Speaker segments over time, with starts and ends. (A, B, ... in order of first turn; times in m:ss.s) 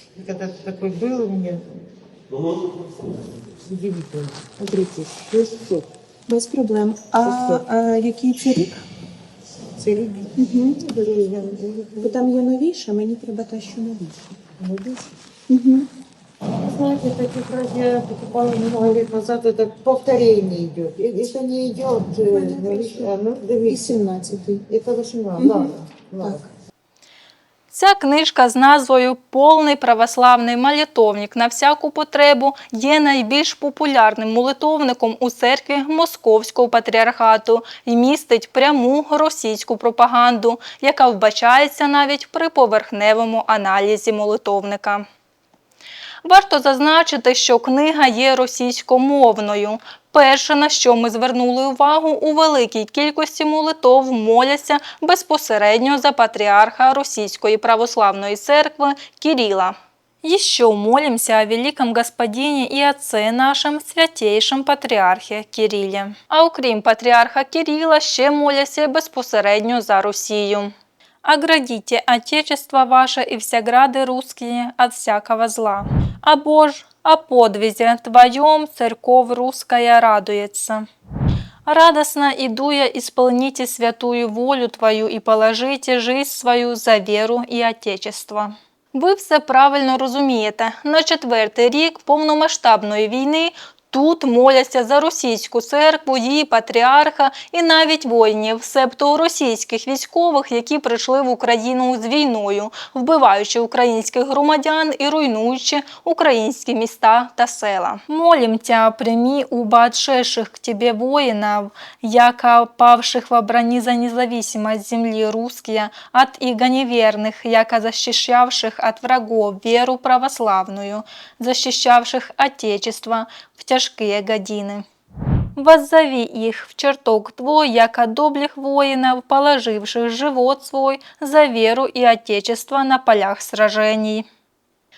0:00.2-0:01.7 A
0:03.5-0:05.9 A
0:06.3-0:08.8 B
0:07.2-0:07.6 A
0:09.8-0:12.2 A
0:10.4-0:10.8 B
0:12.0-0:14.4 B
0:14.6-0:15.1 A
0:15.5-0:15.9 B
0:16.6-0:24.0 A
0:22.3-0:23.1 B
0:23.7-0:24.6 B
0:24.6-0:26.5 A
0:25.4-0:26.4 B
0:27.7-0:45.1 C
0:46.2-1:10.7 C
1:11.2-1:20.9 C
1:21.7-2:04.8 C
2:05.6-2:14.3 C